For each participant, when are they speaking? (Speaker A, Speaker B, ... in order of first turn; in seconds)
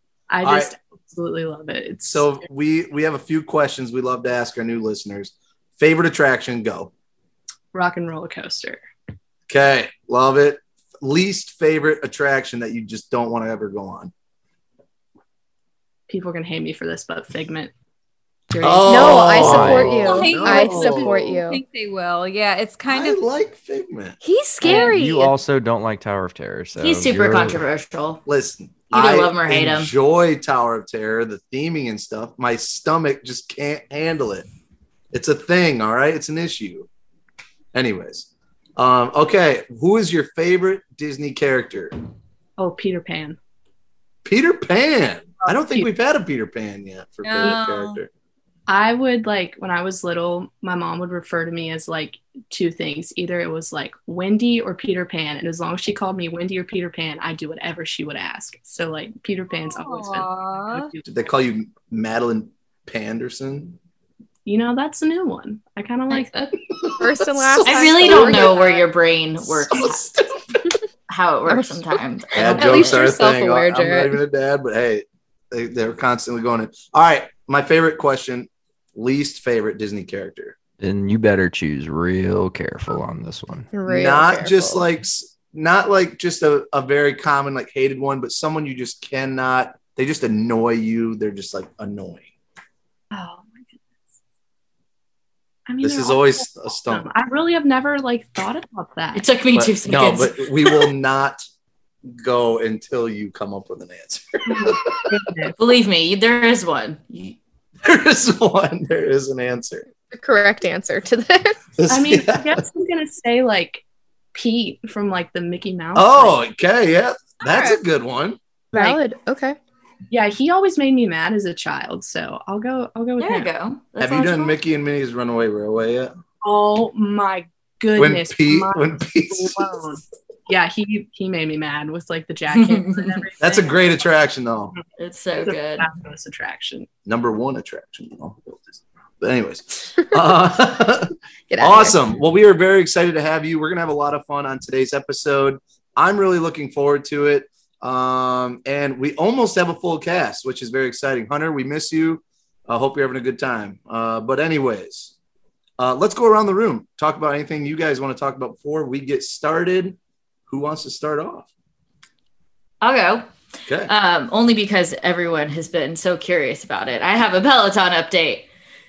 Speaker A: 0.3-2.4, 7.7-8.8, 16.1-17.7, 18.5-19.4, 42.6-43.4, 45.5-45.8, 48.7-61.0, 64.5-66.6, 93.1-93.8, 95.7-99.3, 104.5-105.5, 111.9-116.4, 120.1-123.5, 126.4-133.8, 135.4-136.9
Speaker B: 0.4-0.7, 2.1-6.9, 9.5-14.1, 18.6-21.2, 22.9-24.8, 28.3-34.5, 35.1-36.9, 37.7-42.0, 44.2-48.1, 61.0-63.8, 69.5-70.3, 72.3-80.6, 83.9-92.3, 95.8-97.1, 99.5-101.5, 102.2-105.1, 107.8-109.9, 111.8-112.6, 116.0-118.4, 124.0-126.2, 128.0-129.7, 133.4-134.7, 137.1-141.1, 141.6-155.1, 155.8-161.5
Speaker C: 18.9-21.6, 24.2-25.4, 67.0-68.6, 71.5-71.8, 72.5-74.2, 83.7-84.8, 110.1-111.6, 118.7-119.6, 141.5-142.0
Speaker D: 19.4-20.0, 24.6-27.6, 80.8-83.7
Speaker E: 20.0-23.2, 47.2-48.0, 59.7-60.9
Speaker F: 26.8-28.2, 28.9-29.9, 67.6-70.1, 71.1-73.0, 99.1-100.9, 105.6-107.4, 123.2-124.6, 132.5-133.1, 135.0-135.9, 162.8-163.3, 163.9-168.5